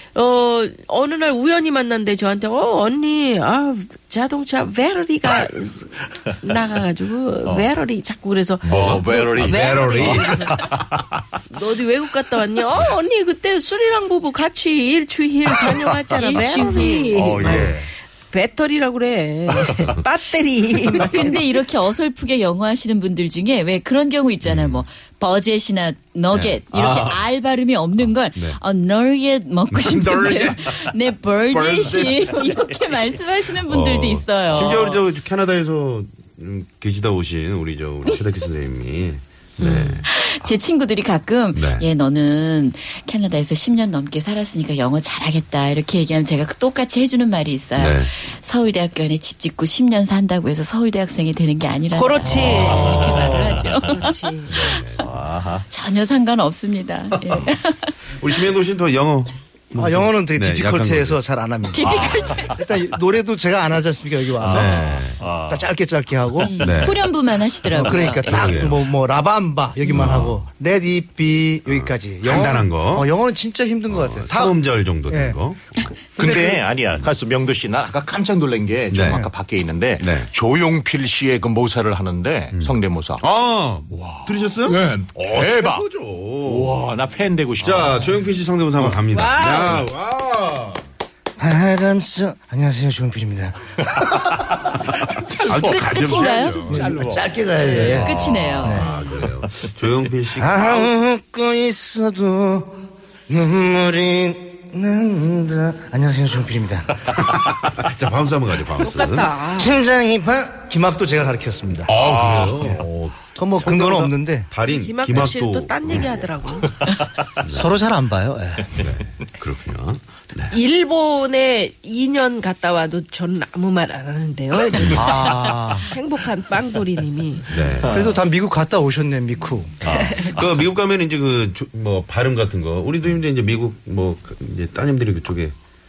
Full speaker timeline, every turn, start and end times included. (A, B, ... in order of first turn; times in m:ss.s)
0:00.1-0:10.6 A
0:08.6-0:11.2 B
0:08.7-0:10.4 C
0:11.5-0:21.6 A
0:16.2-0:17.5 D
0:16.6-0:17.9 B
0:21.0-0:34.9 D
0:24.4-0:24.8 C
0:26.3-0:27.2 C
0:28.0-0:28.6 C
0:29.7-0:30.9 C
0:31.5-0:32.1 C
0:33.5-0:40.6 C
0:39.6-0:40.0 A
0:40.1-0:54.1 D
0:41.5-0:41.9 C
0:47.7-0:48.1 C
0:51.9-0:54.6 A
0:52.3-0:53.8 B
0:52.4-0:53.3 C
0:54.5-0:55.0 C
0:55.0-0:55.6 B
0:55.7-0:57.9 D
0:57.1-0:57.5 C
0:58.2-1:01.2 C
0:59.7-1:04.8 E
1:01.7-1:02.6 D
1:01.8-1:02.6 B
1:04.4-1:05.7 B
1:04.5-1:05.2 C
1:05.5-1:06.7 E
1:06.4-1:08.5 D
1:06.6-1:07.0 C
1:07.6-1:08.8 C
1:07.7-1:14.5 E
1:09.9-1:10.4 C
1:11.6-1:13.1 C
1:13.8-1:16.0 C
1:15.1-1:15.4 E
1:16.2-1:23.2 B
1:16.2-1:16.6 E
1:18.9-1:19.2 C
1:20.0-1:20.3 C
1:22.5-1:26.8 C
1:23.9-1:25.8 B
1:26.4-1:28.2 B
1:27.6-1:30.8 C
1:29.1-1:29.8 A
1:31.4-1:34.5 E
1:35.3-1:35.8 B
1:35.4-1:36.8 D
1:35.5-1:37.1 C
1:36.7-1:38.9 E
1:36.8-1:37.7 B
1:37.7-1:40.9 C
1:38.0-1:38.8 D
1:40.4-1:42.7 E
1:43.3-1:46.9 E
1:47.1-1:49.3 C
1:48.8-1:49.7 A
1:49.6-1:51.9 E
1:51.9-1:56.1 C
1:51.9-1:52.8 B
1:53.3-1:54.5 E
1:54.7-1:56.8 A
1:57.4-1:57.7 C
1:57.4-1:58.7 E
1:58.8-2:00.6 C
2:00.5-2:07.7 A
2:04.8-2:05.1 C
2:04.8-2:05.9 E
2:07.5-2:07.9 C
2:07.9-2:09.7 E
2:07.9-2:08.2 B
2:09.8-2:10.4 B
2:09.9-2:10.3 A
2:10.2-2:15.5 C